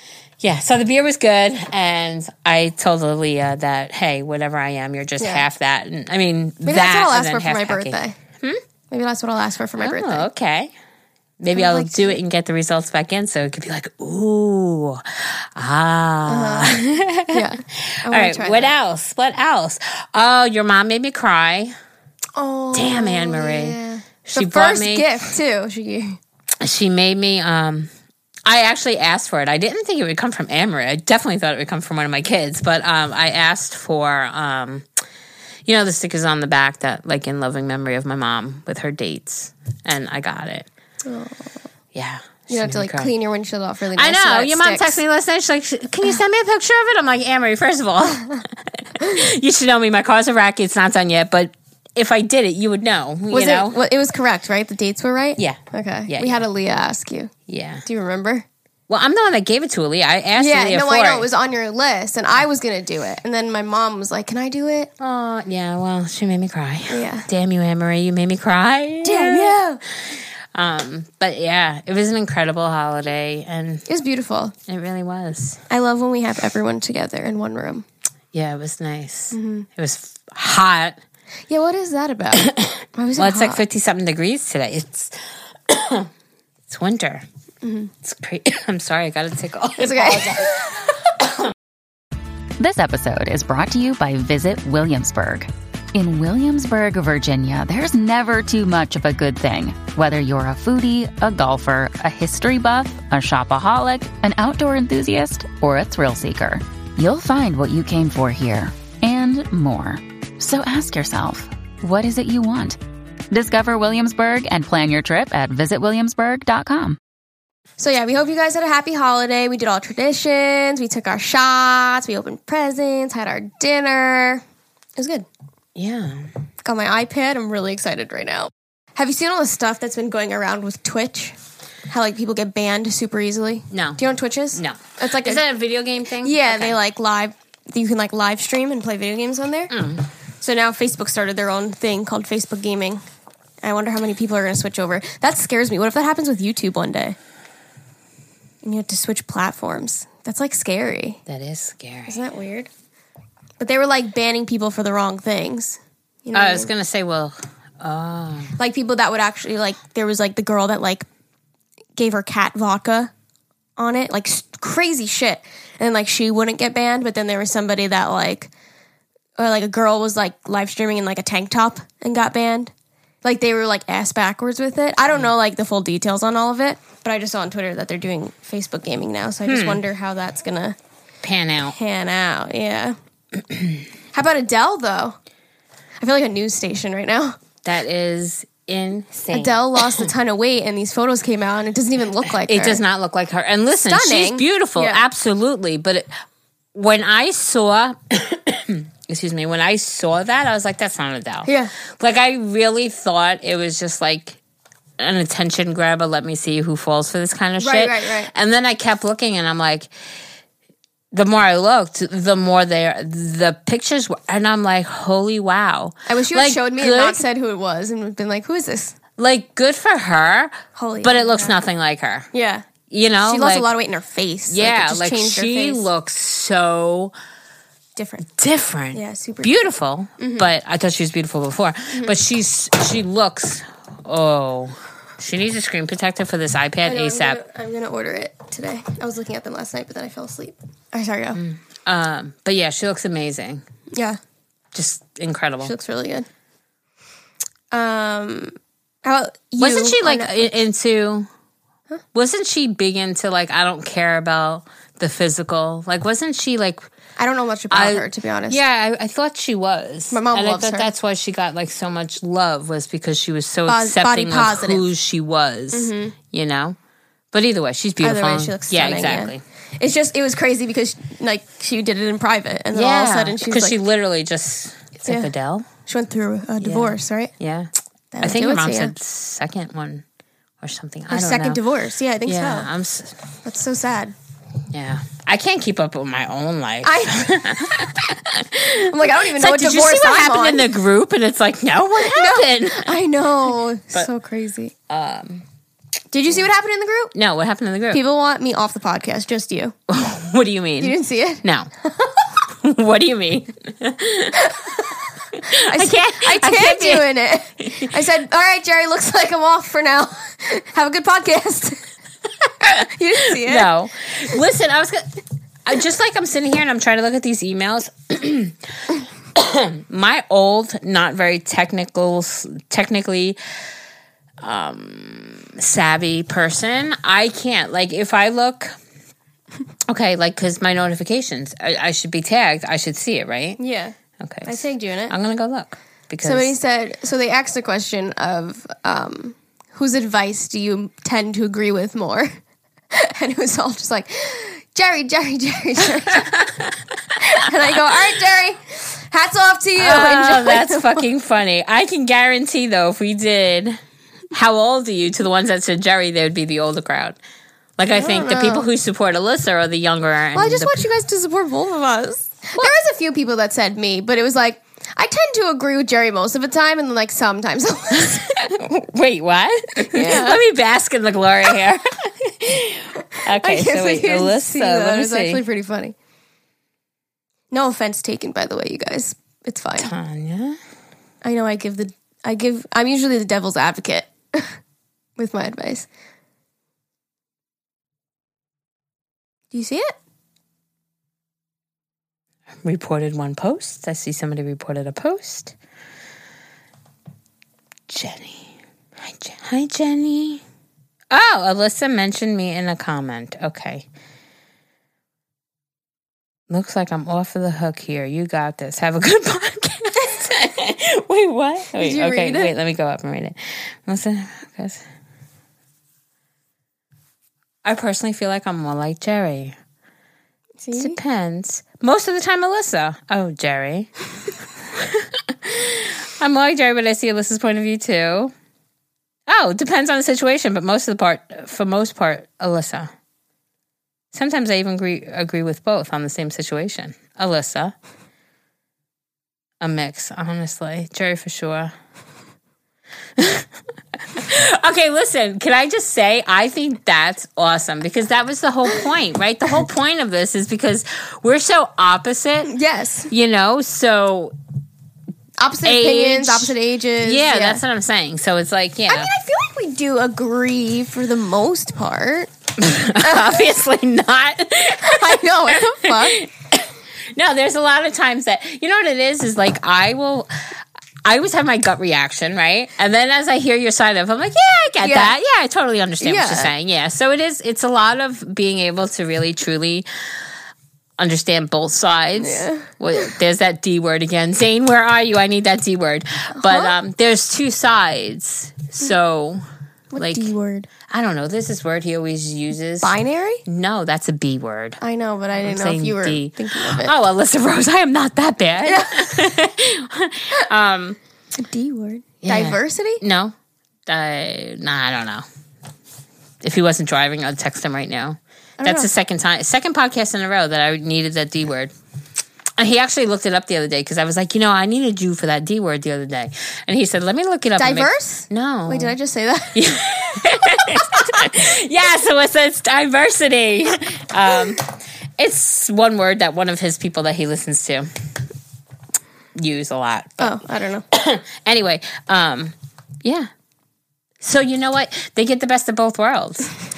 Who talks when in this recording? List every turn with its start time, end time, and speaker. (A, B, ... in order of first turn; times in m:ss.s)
0:00.4-0:08.6 A
0:05.2-0:05.4 B
0:06.6-0:08.1 B
0:08.9-0:10.2 B
0:09.8-0:10.7 A
0:11.4-0:21.7 A
0:11.5-0:12.2 B
0:16.3-0:18.7 B
0:22.4-0:26.2 B
0:22.7-0:25.2 A
0:26.6-0:27.9 A
0:28.4-0:34.9 A
0:35.6-0:40.7 A
0:41.0-0:41.5 B
0:41.9-0:43.1 A
0:42.5-0:45.0 B
0:44.0-0:53.8 A
0:53.3-0:57.3 B
0:55.4-0:56.4 A
0:57.5-0:57.8 A
0:57.8-0:58.4 B
0:58.9-1:01.3 A
1:00.4-1:04.9 B
1:05.0-1:13.8 A
1:06.9-1:07.3 B
1:09.0-1:09.8 B
1:13.9-1:14.5 B
1:14.7-1:15.6 A
1:15.7-1:17.8 B
1:18.3-1:21.0 A
1:19.3-1:19.7 B
1:21.5-1:23.6 B
1:22.3-1:26.1 A
1:26.7-1:27.2 A
1:27.6-1:27.9 B
1:28.0-1:31.5 A
1:29.8-1:30.7 B
1:32.6-1:52.8 C
1:53.3-1:57.0 C
1:57.8-2:04.4 B
2:05.0-2:05.3 B
2:05.7-2:06.3 A
2:06.6-2:11.4 B
2:11.9-2:15.4 B
2:13.7-2:14.0 A
2:14.5-2:16.8 A
2:16.2-2:19.7 B
2:19.7-2:20.1 A
2:20.4-2:23.0 B
2:23.6-2:27.2 B
2:28.6-2:31.2 B
2:31.3-2:32.2 A
2:32.1-2:32.7 B
2:33.6-2:36.7 B
2:36.3-2:38.6 A
2:38.6-2:41.0 B
2:42.0-2:43.1 B
2:43.8-2:48.5 B
2:49.4-2:52.7 B
2:53.2-3:00.8 B
2:59.4-2:59.8 A
3:01.2-3:01.7 A
3:01.7-3:03.0 B
3:03.5-3:03.8 A
3:04.1-3:05.2 B
3:06.0-3:07.4 B
3:07.6-3:10.1 A
3:09.3-3:12.8 B
3:12.2-3:16.1 A
3:13.8-3:15.0 B
3:16.7-3:24.4 A
3:21.4-3:21.7 B
3:25.0-3:29.9 A
3:27.6-3:28.3 B
3:31.1-3:37.2 A
3:36.1-3:39.0 B
3:39.2-3:42.3 A
3:40.7-3:41.5 B
3:42.3-3:42.6 B
3:42.9-3:43.6 A
3:43.2-3:45.8 B
3:44.5-3:47.1 A
3:48.0-3:48.3 B
3:48.4-3:57.4 A
3:48.9-3:49.5 B
3:50.2-3:50.4 B
3:56.8-4:01.4 B
4:01.3-4:03.6 A
4:03.9-4:04.2 B
4:04.7-4:05.7 A
4:05.6-4:06.3 B
4:07.7-4:10.4 B
4:09.6-4:11.3 A
4:12.1-4:16.8 A
4:17.2-4:18.6 B
4:17.7-4:26.8 A
4:20.1-4:20.9 B
4:23.7-4:24.8 B
4:25.7-4:26.1 B
4:27.3-4:29.4 A
4:28.0-4:33.7 B
4:32.7-4:35.7 A
4:35.0-4:35.3 B
4:35.8-4:37.3 B
4:36.6-4:40.0 A
4:38.1-4:38.9 B
4:40.6-4:41.6 A
4:41.1-4:42.7 B
4:42.2-4:43.2 A
4:43.4-4:44.1 B
4:44.7-4:53.0 A
4:46.8-4:47.9 B
4:48.7-4:50.7 B
4:52.0-4:54.7 B
4:54.9-4:55.4 A
4:56.1-4:57.1 B
4:57.1-4:58.0 A
4:57.9-4:59.7 B
4:59.9-5:01.7 A
5:00.8-5:02.2 B
5:02.5-5:04.8 A
5:04.3-5:11.9 B
5:05.3-5:07.1 A
5:12.6-5:23.4 A
5:12.7-5:13.7 B
5:24.4-5:28.7 A
5:29.9-5:33.6 A
5:33.6-5:35.1 B
5:34.2-5:36.5 A
5:36.2-5:42.3 B
5:42.9-5:46.3 B
5:46.1-5:47.1 A
5:47.2-5:51.0 B
5:49.8-5:53.8 A
5:54.3-5:57.2 A
5:57.8-6:00.8 A
5:57.9-5:58.6 B
6:00.3-6:08.4 B
6:08.0-6:15.4 A
6:09.8-6:10.4 B
6:13.2-6:15.9 B
6:17.5-6:19.9 B
6:19.8-6:20.6 A
6:21.2-6:24.6 B
6:25.2-6:25.9 B
6:29.5-6:29.9 B
6:32.6-6:35.5 A
6:37.9-6:40.4 A
6:41.1-6:43.9 A
6:46.5-6:54.8 A
6:51.8-6:52.5 B
6:57.6-6:59.6 A
7:00.6-7:01.0 B
7:00.7-7:03.9 A
7:04.7-7:08.3 A
7:09.3-7:12.9 A
7:14.1-7:17.7 A
7:19.6-7:21.7 A
7:23.2-7:23.5 A
7:24.0-7:32.5 A
7:32.4-7:33.1 B
7:33.1-7:34.3 A
7:35.4-7:37.6 B
7:35.6-7:39.1 A
7:38.9-7:42.3 B
7:42.6-7:59.9 A
7:43.0-7:43.4 B
7:44.8-7:46.2 B
7:54.8-7:55.1 B
7:56.0-7:56.5 B
8:01.0-8:09.4 A
8:02.2-8:03.1 B
8:06.3-8:06.7 B
8:09.9-8:10.7 B
8:10.0-8:10.3 A
8:10.8-8:12.9 A
8:12.8-8:13.4 B
8:13.4-8:14.8 A
8:14.8-8:16.9 B
8:15.4-8:21.0 A
8:18.6-8:19.2 B
8:21.4-8:23.0 B
8:22.2-8:23.3 A
8:23.8-8:25.2 A
8:26.4-8:31.7 A
8:28.6-8:28.9 B
8:32.6-8:38.9 A
8:37.6-8:41.1 B
8:39.5-8:47.9 A
8:49.4-8:50.4 A
8:50.2-8:50.8 B
8:50.9-8:53.3 A
8:54.2-8:56.5 A